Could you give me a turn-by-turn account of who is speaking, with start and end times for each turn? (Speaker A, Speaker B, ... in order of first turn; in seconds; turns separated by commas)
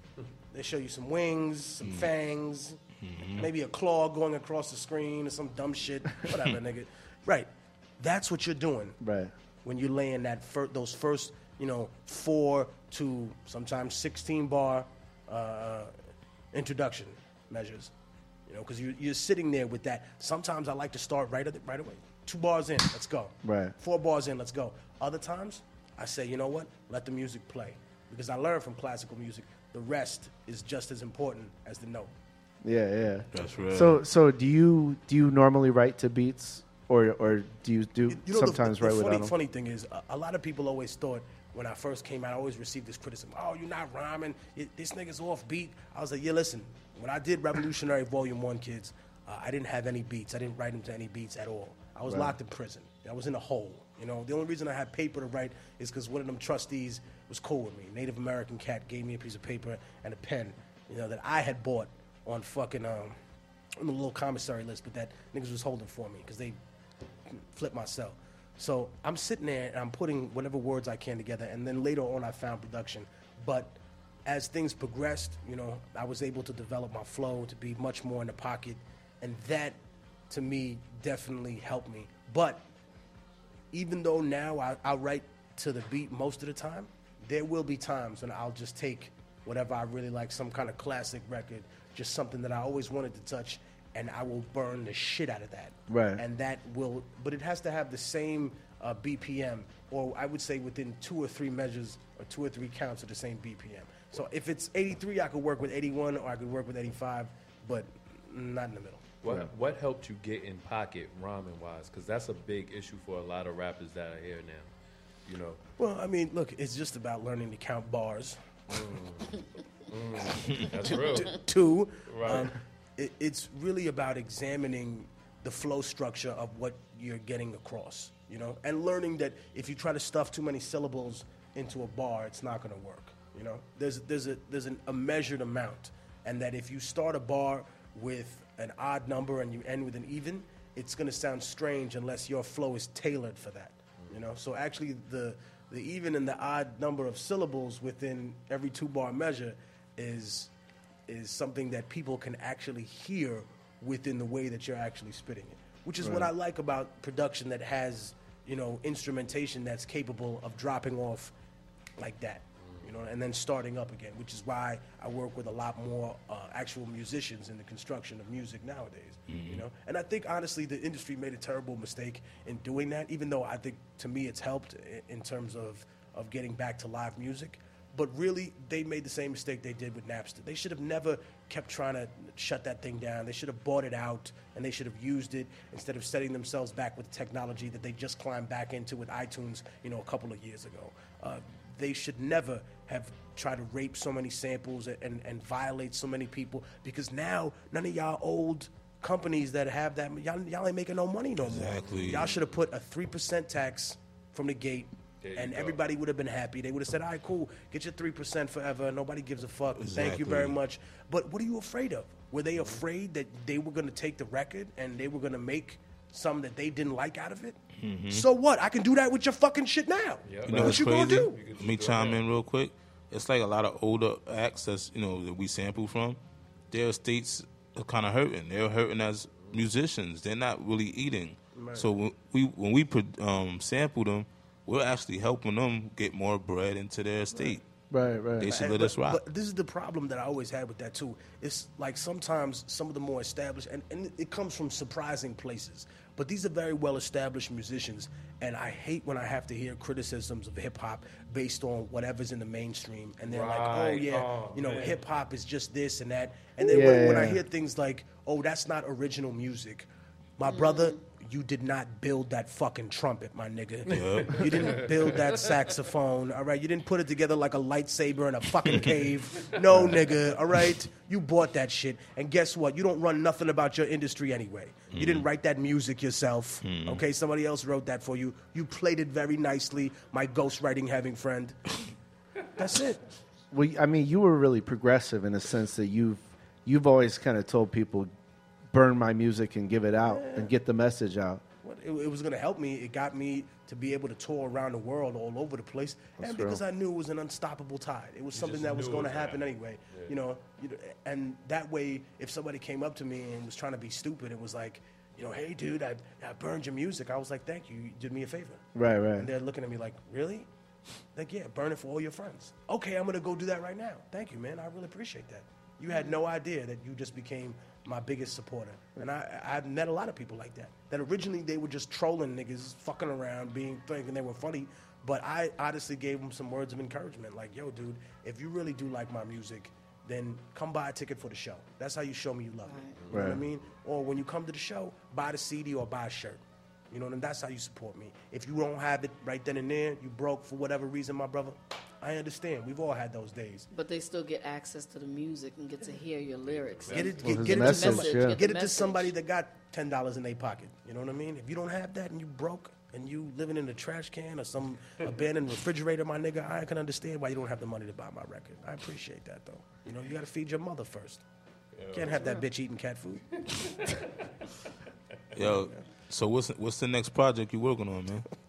Speaker A: 0.5-2.8, Speaker B: 1.8-2.1, Speaker B: 3.0-3.5, Speaker A: 3.3-7.5, Speaker A: 8.0-9.0, Speaker C: 9.0-9.3, Speaker A: 9.6-15.9, Speaker A: 16.5-17.9, Speaker A: 18.5-32.1, Speaker C: 23.4-23.7, Speaker C: 32.6-39.3, Speaker B: 33.3-34.0, Speaker A: 38.1-63.1, Speaker C: 52.1-52.4, Speaker A: 63.8-66.6, Speaker A: 67.3-79.8, Speaker A: 80.3-82.6, Speaker A: 83.7-109.1, Speaker C: 95.9-96.2, Speaker D: 109.2-114.7, Speaker D: 115.2-115.6, Speaker A: 115.8-118.4, Speaker D: 118.7-121.4, Speaker A: 120.8-150.5, Speaker D: 122.0-122.5, Speaker A: 151.1-161.3, Speaker C: 156.0-156.3, Speaker A: 162.0-217.6, Speaker D: 162.6-162.9, Speaker B: 169.3-169.6, Speaker B: 201.4-202.3, Speaker D: 201.8-202.4, Speaker D: 205.2-205.8, Speaker B: 209.8-210.6, Speaker D: 212.6-212.8, Speaker B: 217.8-218.3, Speaker A: 218.1-221.4, Speaker D: 220.2-222.2, Speaker B: 220.4-226.2, Speaker B: 226.7-237.6, Speaker A: 231.5-231.9, Speaker C: 237.9-238.6, Speaker B: 238.4-239.2, Speaker A: 238.4-281.6, Speaker D: 253.2-255.0, Speaker C: 256.7-257.4, Speaker E: 260.4-260.9, Speaker D: 263.9-265.6, Speaker B: 263.9-264.8, Speaker D: 268.7-270.2, Speaker D: 274.9-275.2, Speaker B: 274.9-275.2, Speaker B: 276.6-277.0, Speaker A: 282.6-283.0, Speaker C: 283.5-288.1, Speaker C: 288.7-291.4, Speaker A: 290.0-290.5, Speaker A: 291.6-308.6, Speaker C: 296.2-296.6, Speaker D: 298.3-300.1, Speaker C: 308.7-309.3, Speaker A: 309.2-310.5, Speaker A: 311.1-343.7, Speaker E: 332.6-332.9, Speaker D: 332.9-333.4, Speaker C: 333.1-333.4, Speaker E: 343.7-349.1, Speaker D: 346.6-347.5, Speaker A: 346.9-361.2, Speaker C: 347.2-348.4, Speaker D: 361.8-362.4, Speaker A: 361.9-363.2, Speaker D: 363.7-364.0, Speaker D: 365.3-365.6, Speaker B: 365.4-368.2